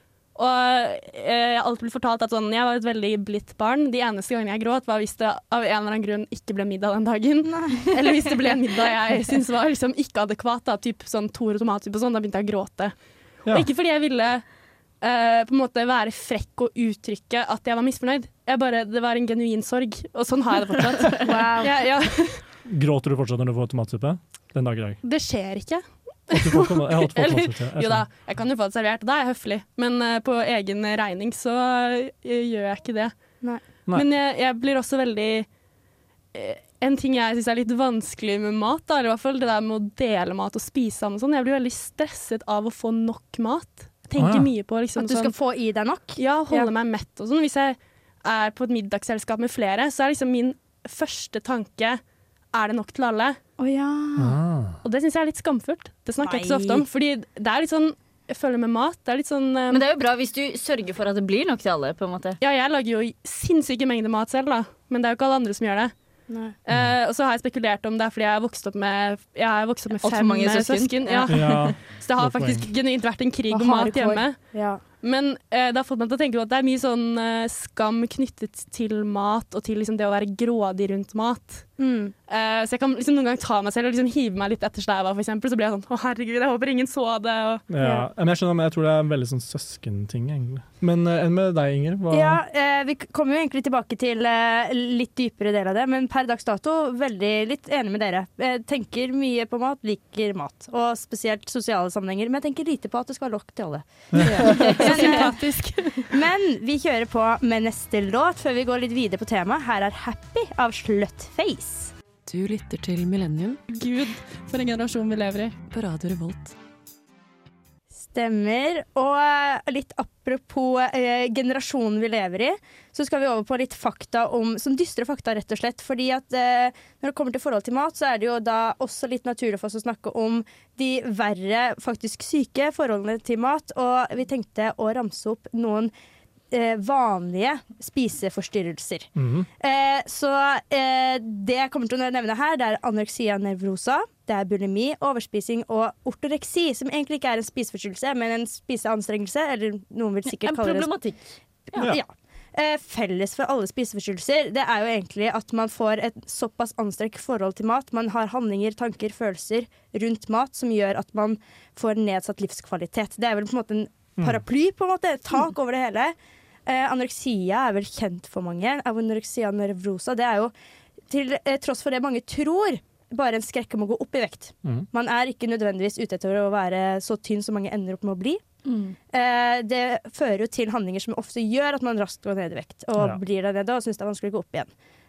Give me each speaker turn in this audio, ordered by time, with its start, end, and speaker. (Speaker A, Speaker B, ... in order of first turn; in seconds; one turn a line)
Speaker A: 0.3-14.5
Speaker B: 7.5-8.8
Speaker A: 15.0-22.4
Speaker B: 21.2-21.7
Speaker C: 22.7-25.0
Speaker A: 25.0-35.5
Speaker C: 26.3-28.1
Speaker A: 36.3-45.3
Speaker C: 44.2-44.5
Speaker B: 45.0-46.7
Speaker A: 46.2-53.4
Speaker B: 53.6-54.4
Speaker C: 54.2-54.8
Speaker A: 54.8-59.8
Speaker B: 56.2-56.9
Speaker D: 59.7-62.4
Speaker A: 62.4-87.7
Speaker B: 66.3-66.5
Speaker C: 66.7-67.0
Speaker D: 70.0-71.8
Speaker C: 71.3-72.6
Speaker B: 73.5-74.8
Speaker B: 81.8-82.1
Speaker C: 87.7-92.4
Speaker B: 87.8-88.1
Speaker B: 92.1-111.9
Speaker C: 104.1-104.4
Speaker A: 104.5-106.1
Speaker E: 112.3-113.6
Speaker A: 113.7-115.6
Speaker E: 115.7-116.5
Speaker B: 118.1-135.9
Speaker B: 136.5-150.9
Speaker C: 139.2-139.5
Speaker D: 150.3-151.9
Speaker B: 151.7-166.2
Speaker B: 166.7-170.5
Speaker B: 171.1-178.4
Speaker D: 178.7-179.0
Speaker B: 179.1-184.7